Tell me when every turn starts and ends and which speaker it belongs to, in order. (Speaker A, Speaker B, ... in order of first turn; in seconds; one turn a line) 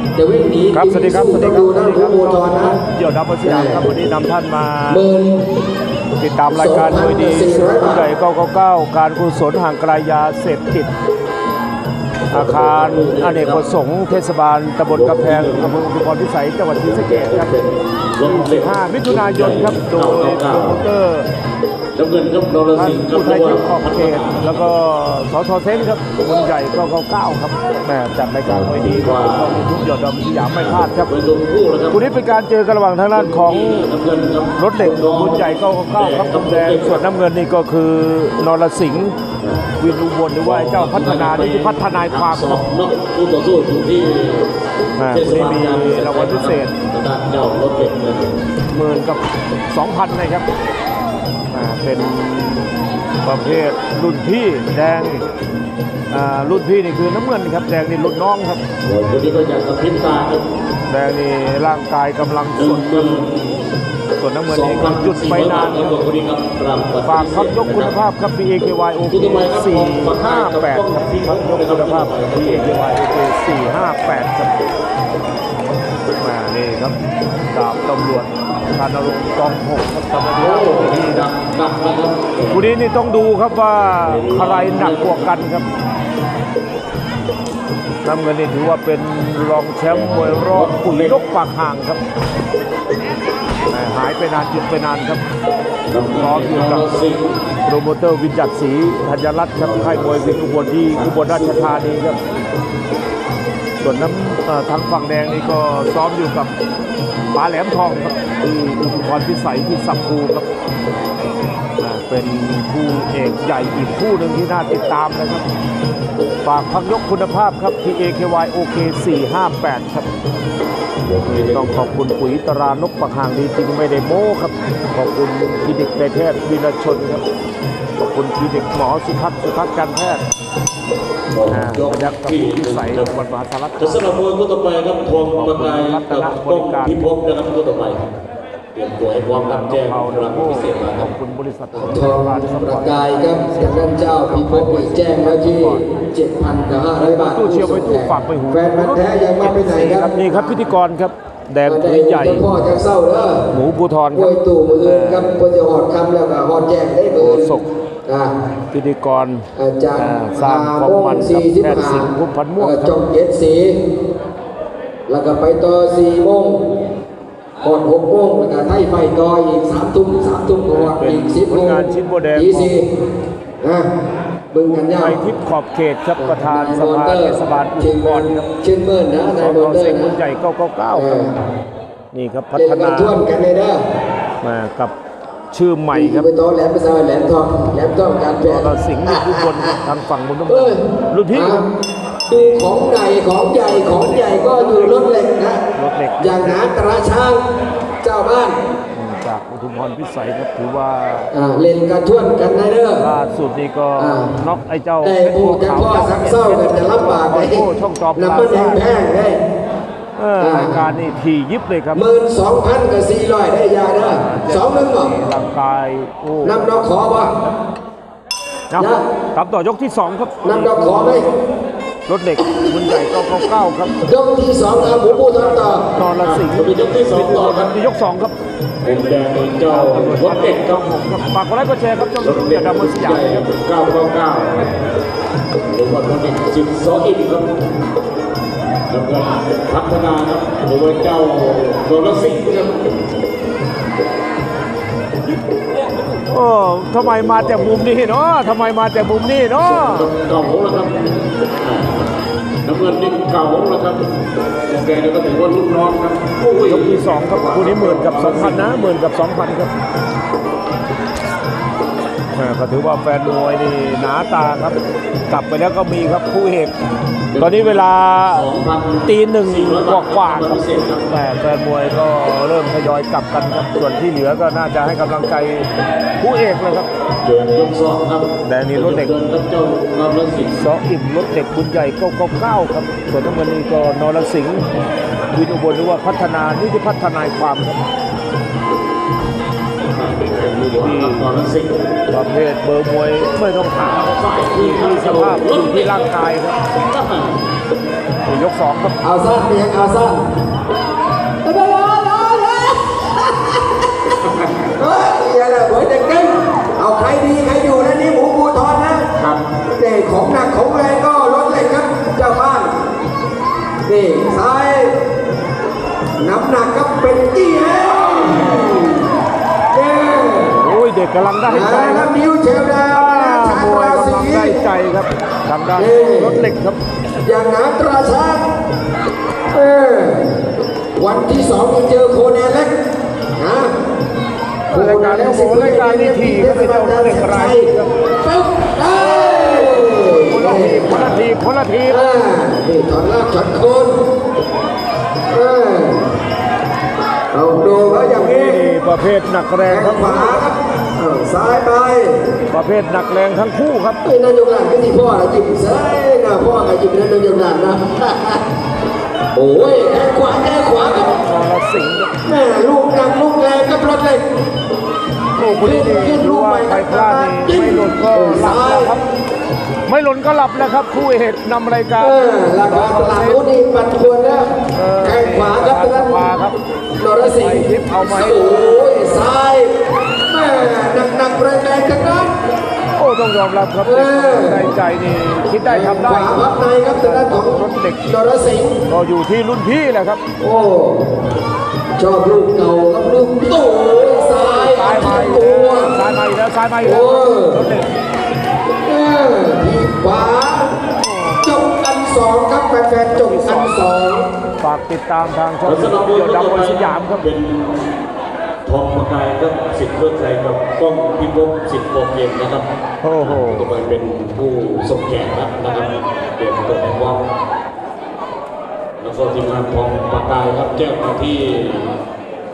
Speaker A: 0.1-2.8
Speaker B: 0.7-5.0
Speaker A: 3.4-3.8
Speaker A: 4.9-5.5
Speaker B: 6.2-10.9
Speaker A: 6.5-8.1
Speaker C: 12.3-13.7
Speaker B: 12.3-17.5
Speaker C: 14.9-15.8
Speaker C: 16.8-20.8
Speaker B: 18.2-21.3
Speaker C: 21.9-24.7
Speaker B: 22.7-31.1
Speaker C: 28.4-29.7
Speaker C: 30.6-32.0
Speaker B: 31.9-33.9
Speaker C: 33.1-37.0
Speaker B: 34.6-39.2
Speaker C: 39.4-39.7
Speaker B: 39.8-42.6
Speaker C: 40.4-44.5
Speaker B: 45.0-46.7
Speaker C: 45.1-48.4
Speaker B: 48.7-50.4
Speaker B: 51.5-52.7
Speaker B: 53.2-55.2
Speaker B: 56.1-58.6
Speaker C: 58.8-60.4
Speaker B: 60.9-63.3
Speaker C: 62.5-63.6
Speaker B: 64.2-66.0
Speaker C: 64.5-67.9
Speaker B: 67.0-74.5
Speaker C: 69.0-72.7
Speaker B: 76.2-77.0
Speaker B: 77.5-81.3
Speaker C: 80.4-82.7
Speaker B: 82.5-85.7
Speaker C: 84.0-85.4
Speaker B: 88.0-92.0
Speaker C: 89.9-91.2
Speaker B: 93.7-95.2
Speaker C: 95.9-97.4
Speaker B: 96.1-96.9
Speaker B: 97.7-102.2
Speaker C: 99.5-101.9
Speaker B: 103.8-106.5
Speaker B: 107.3-110.5
Speaker B: 111.8-115.4
Speaker B: 116.4-120.1
Speaker C: 121.0-121.9
Speaker B: 121.2-127.2
Speaker B: 128.0-130.2
Speaker C: 131.3-133.1
Speaker B: 131.5-134.2
Speaker C: 133.8-138.0
Speaker B: 135.3-137.0
Speaker C: 138.7-141.1
Speaker B: 139.4-145.9
Speaker A: 141.7-150.7
Speaker B: 147.3-152.5
Speaker A: 151.6-153.4
Speaker B: 153.5-155.3
Speaker A: 154.1-157.5
Speaker B: 157.2-157.7
Speaker A: 158.1-158.3
Speaker B: 158.7-159.4
Speaker A: 159.6-163.8
Speaker B: 160.0-163.0
Speaker A: 165.1-166.6
Speaker A: 167.6-171.8
Speaker B: 170.7-172.7
Speaker A: 172.3-172.8
Speaker A: 173.6-173.9
Speaker A: 174.5-175.2
Speaker B: 175.0-178.5
Speaker A: 176.2-180.2
Speaker B: 179.3-181.2
Speaker A: 180.9-181.3
Speaker B: 182.1-183.2
Speaker A: 182.5-183.8
Speaker B: 184.4-184.9
Speaker B: 185.5-186.3
Speaker A: 185.9-189.8
Speaker B: 188.4-191.6
Speaker A: 190.5-190.8
Speaker A: 191.3-191.6
Speaker A: 192.3-195.6
Speaker B: 192.3-192.8
Speaker B: 193.6-195.1
Speaker B: 195.7-196.6
Speaker A: 196.2-197.4
Speaker A: 198.0-198.6
Speaker B: 198.9-201.3
Speaker A: 201.3-203.0
Speaker B: 203.0-208.8
Speaker A: 204.0-204.3
Speaker A: 205.0-209.4
Speaker B: 210.2-212.0
Speaker A: 210.4-210.9
Speaker A: 211.9-215.1
Speaker B: 213.9-217.5
Speaker A: 216.4-217.3
Speaker B: 218.7-221.2
Speaker A: 218.8-219.0
Speaker A: 220.4-221.3
Speaker B: 222.1-223.9
Speaker A: 224.0-225.8
Speaker B: 224.8-228.3
Speaker C: 226.2-227.7
Speaker C: 228.8-230.8
Speaker B: 229.7-233.4
Speaker C: 232.2-234.7
Speaker C: 235.7-237.6
Speaker C: 238.9-242.8
Speaker B: 246.2-250.1
Speaker C: 247.3-247.8
Speaker C: 249.6-252.1
Speaker C: 252.6-254.1
Speaker C: 254.7-258.9
Speaker B: 256.6-259.7
Speaker B: 262.3-264.8
Speaker B: 265.3-266.7
Speaker C: 267.3-271.1
Speaker B: 267.4-268.5
Speaker B: 269.1-275.7
Speaker B: 276.2-276.9
Speaker C: 277.2-280.5
Speaker B: 278.4-279.1
Speaker B: 280.5-284.7
Speaker B: 285.3-287.8
Speaker C: 289.9-291.8
Speaker B: 290.5-291.3
Speaker B: 292.1-296.6
Speaker C: 293.8-296.1
Speaker C: 296.8-297.4
Speaker B: 298.2-299.0
Speaker A: 299.0-300.2
Speaker A: 301.4-303.6
Speaker C: 304.2-304.5
Speaker A: 304.8-309.1
Speaker C: 309.1-309.4
Speaker A: 309.8-312.7
Speaker A: 313.8-314.9
Speaker A: 316.2-318.9
Speaker B: 318.3-318.7
Speaker A: 319.7-320.6
Speaker B: 320.6-322.1
Speaker A: 321.4-324.6
Speaker B: 322.9-326.8
Speaker A: 325.8-326.4
Speaker A: 327.2-328.4
Speaker A: 329.5-330.3
Speaker A: 330.9-332.7
Speaker A: 333.4-333.7
Speaker B: 334.7-337.9
Speaker A: 334.7-337.7
Speaker A: 338.2-341.1
Speaker B: 339.1-342.0
Speaker A: 341.9-344.0
Speaker A: 345.3-346.0
Speaker A: 347.3-348.6
Speaker B: 347.7-350.4
Speaker A: 349.6-352.2
Speaker B: 352.5-354.0
Speaker A: 354.0-358.4
Speaker A: 359.3-361.1
Speaker B: 361.0-362.1
Speaker A: 362.2-364.2
Speaker B: 365.4-369.0
Speaker A: 365.6-368.9
Speaker B: 369.9-373.5
Speaker A: 372.0-374.5
Speaker B: 374.7-376.5
Speaker A: 375.0-376.2
Speaker A: 377.0-379.7
Speaker B: 377.4-378.4
Speaker A: 380.3-382.3
Speaker B: 382.9-388.1
Speaker A: 383.8-384.7
Speaker A: 385.6-388.8
Speaker B: 388.9-390.2
Speaker A: 390.4-391.1
Speaker A: 392.0-395.9
Speaker B: 394.3-397.9
Speaker A: 396.8-397.6
Speaker A: 398.8-400.7
Speaker B: 401.0-401.6
Speaker A: 401.4-404.3
Speaker B: 403.1-403.9
Speaker B: 404.6-407.3
Speaker C: 405.6-407.8
Speaker C: 408.6-412.6
Speaker B: 413.0-413.7
Speaker C: 413.2-417.2
Speaker C: 419.0-421.9